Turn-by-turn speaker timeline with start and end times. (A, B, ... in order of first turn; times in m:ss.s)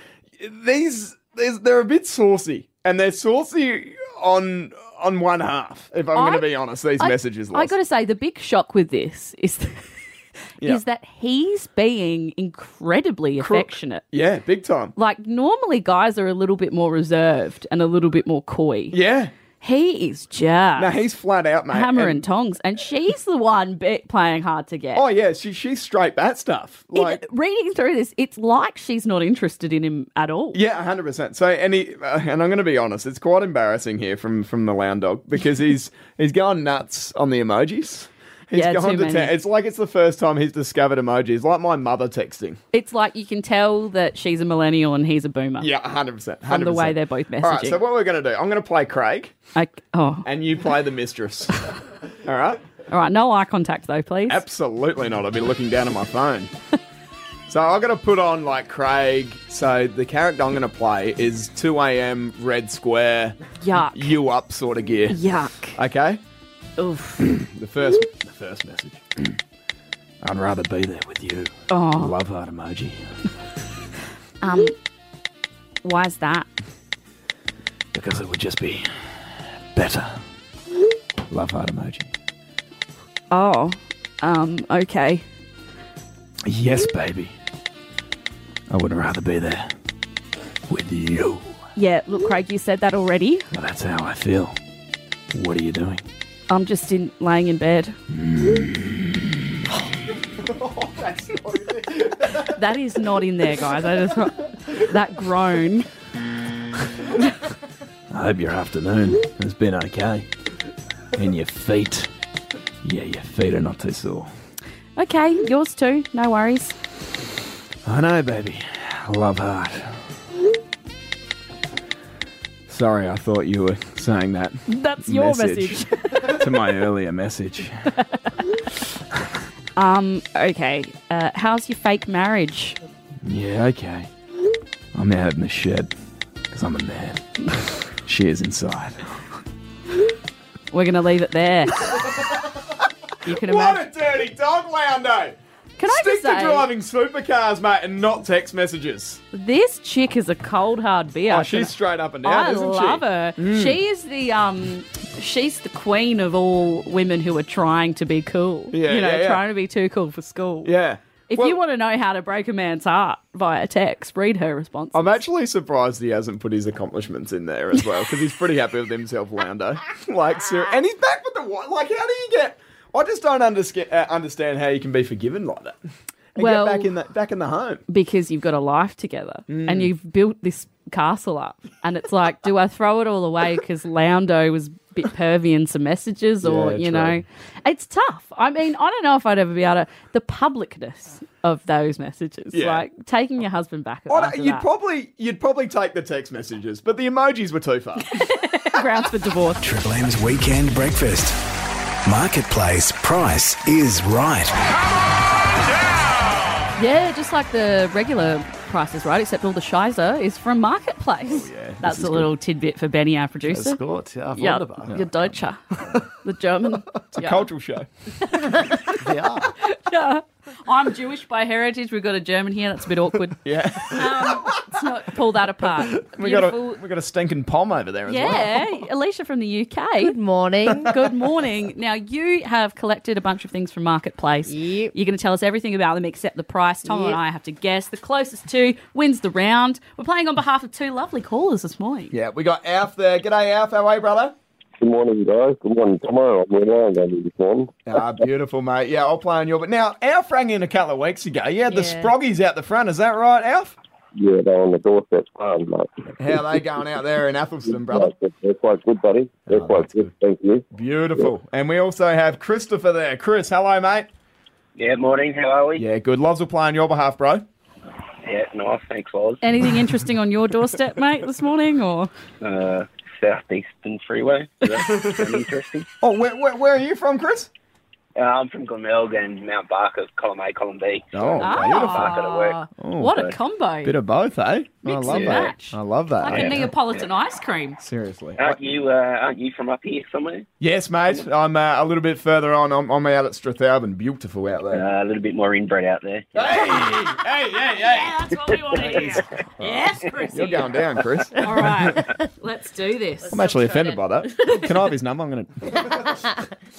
0:00.4-0:07.7 A
0:06.1-0:06.5 B
0:07.0-0:09.9 B
0:10.6-0:14.0 B
0:13.4-0:15.0 A
0:15.0-0:19.0 B
0:18.9-0:19.3 A
0:19.6-0:21.0 B
0:20.8-0:22.2 A
0:21.7-0:25.0 B
0:25.0-0:27.2 A
0:26.9-0:30.6 B
0:30.5-0:42.6 A
0:38.5-0:39.3 B
0:42.7-0:45.7 B
0:45.6-0:49.4 A
0:46.5-0:47.8 B
0:49.5-0:50.3 B
0:50.2-0:52.6 A
0:52.9-0:54.4 B
0:54.3-0:56.5 A
0:57.5-1:03.4 A
1:03.6-1:04.1 B
1:03.9-1:05.2 A
1:05.1-1:05.8 B
1:05.7-1:06.2 A
1:06.8-1:07.3 B
1:07.2-1:09.3 A
1:10.2-1:13.0 A
1:11.7-1:12.2 B
1:14.4-1:14.8 B
1:15.8-1:16.5 B
1:17.9-1:20.2 A
1:21.3-1:22.1 A
1:23.3-1:25.2 B
1:26.4-1:27.3 A
1:28.7-1:29.7 A
1:30.7-1:31.6 A
1:31.8-1:33.5 B
1:33.5-1:34.6 A
1:35.3-1:36.0 A
1:36.5-1:38.0 B
1:38.1-1:39.5 A
1:40.4-1:42.6 A
1:42.4-1:45.9 B
1:48.1-1:50.3 A
1:51.1-1:52.1 A
1:52.8-1:54.3 A
1:55.0-1:56.8 B
1:57.8-2:00.0 A
2:02.7-2:08.0 A
2:04.7-2:06.5 B
2:08.0-2:08.4 B
2:09.8-2:12.8 B
2:13.2-2:14.1 A
2:14.9-2:15.9 A
2:16.5-2:17.2 A
2:18.0-2:19.1 A
2:20.7-2:22.0 B
2:21.8-2:22.7 A
2:23.2-2:23.9 B
2:23.2-2:29.2 A
2:25.8-2:26.7 B
2:29.3-2:40.7 B
2:31.3-2:33.8 A
2:38.7-2:39.4 A
2:40.6-2:41.6 A
2:41.3-2:45.2 B
2:44.9-2:55.8 A
2:56.3-2:57.8 A
2:56.4-2:56.9 B
2:57.9-3:14.7 B
2:59.5-2:59.9 A
3:06.4-3:07.2 A
3:12.5-3:12.8 A
3:14.1-3:18.1 A
3:18.2-3:19.6 B
3:19.6-3:21.4 C
3:22.0-3:24.5 C
3:26.8-3:33.8 B
3:31.2-3:32.3 A
3:33.4-3:35.0 D
3:34.3-3:37.5 B
3:37.1-3:37.9 A
3:38.2-3:39.0 B
3:39.0-3:39.5 D
3:39.6-3:46.8 B
3:43.4-3:44.7 A
3:45.8-3:48.8 A
3:48.1-3:50.2 B
3:50.0-3:51.0 E
3:50.8-4:02.1 B
3:54.5-3:54.9 E
3:56.8-3:57.2 E
4:02.1-4:04.4 A
4:04.8-4:08.0 F
4:07.8-4:13.8 A
4:11.7-4:12.1 E
4:14.2-4:16.6 F
4:16.2-4:18.1 A
4:17.7-4:21.3 F
4:19.5-4:20.1 A
4:20.7-4:24.1 A
4:24.8-4:25.8 G
4:25.8-4:27.5 A
4:28.2-4:29.4 G
4:29.4-4:32.1 B
4:32.4-4:35.9 G
4:36.0-4:37.5 A
4:38.2-4:43.3 G
4:41.1-4:42.2 A
4:41.4-4:44.0 B
4:42.8-4:43.2 A
4:43.8-4:46.7 A
4:44.8-4:47.8 B
4:45.0-4:45.5 G
4:47.8-4:48.6 A
4:48.4-4:50.5 G
4:50.6-4:54.9 A
4:54.7-4:56.4 G
4:56.3-5:02.0 A
4:56.5-4:57.0 B
4:57.8-5:00.8 B
5:01.4-5:04.8 B
5:03.3-5:06.2 A
5:05.8-5:06.3 E